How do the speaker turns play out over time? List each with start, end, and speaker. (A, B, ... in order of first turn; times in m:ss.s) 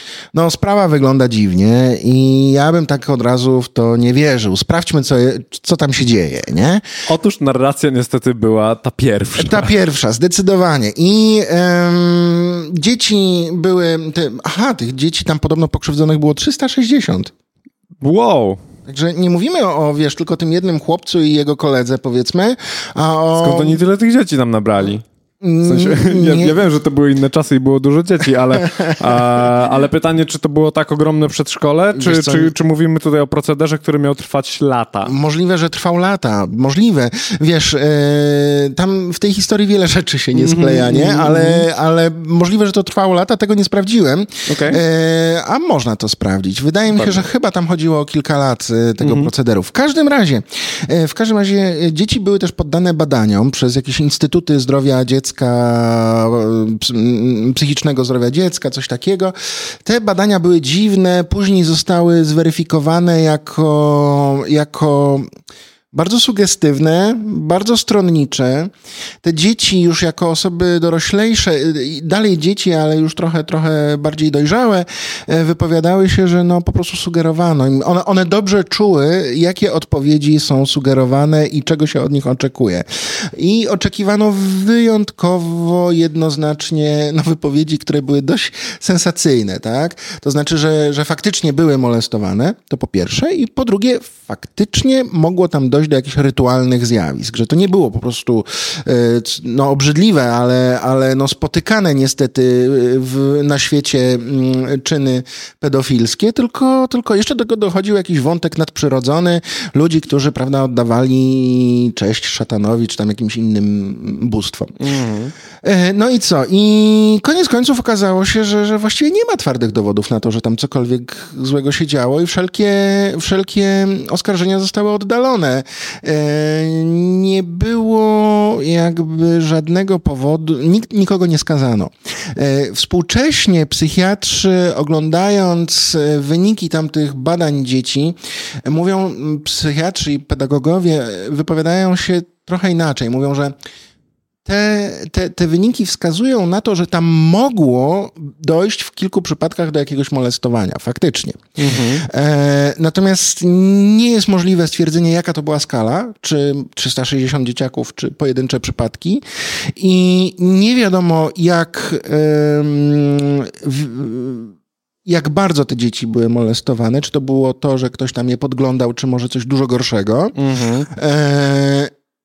0:00.3-0:06.8 A
0:07.1-0:09.7 B
0:09.4-0:17.3 A
0:18.0-0:18.6 B
0:18.9-0:23.8 A
0:23.4-0:25.0 B
0:25.4-0:26.6 A
0:25.6-0:35.1 B
0:28.6-0:29.5 A
0:32.0-0:32.5 A
0:35.0-1:05.3 A
0:40.3-0:41.6 B
0:44.5-0:44.8 B
0:46.9-0:47.2 B
0:49.0-0:49.3 B
1:05.9-1:08.7 A
1:09.2-1:54.8 A
1:54.8-1:55.3 B
1:55.6-2:23.5 A
2:24.4-2:44.5 A
2:31.6-2:32.0 B
2:45.1-2:50.4 A
2:50.4-2:50.9 B
2:50.9-2:51.9 A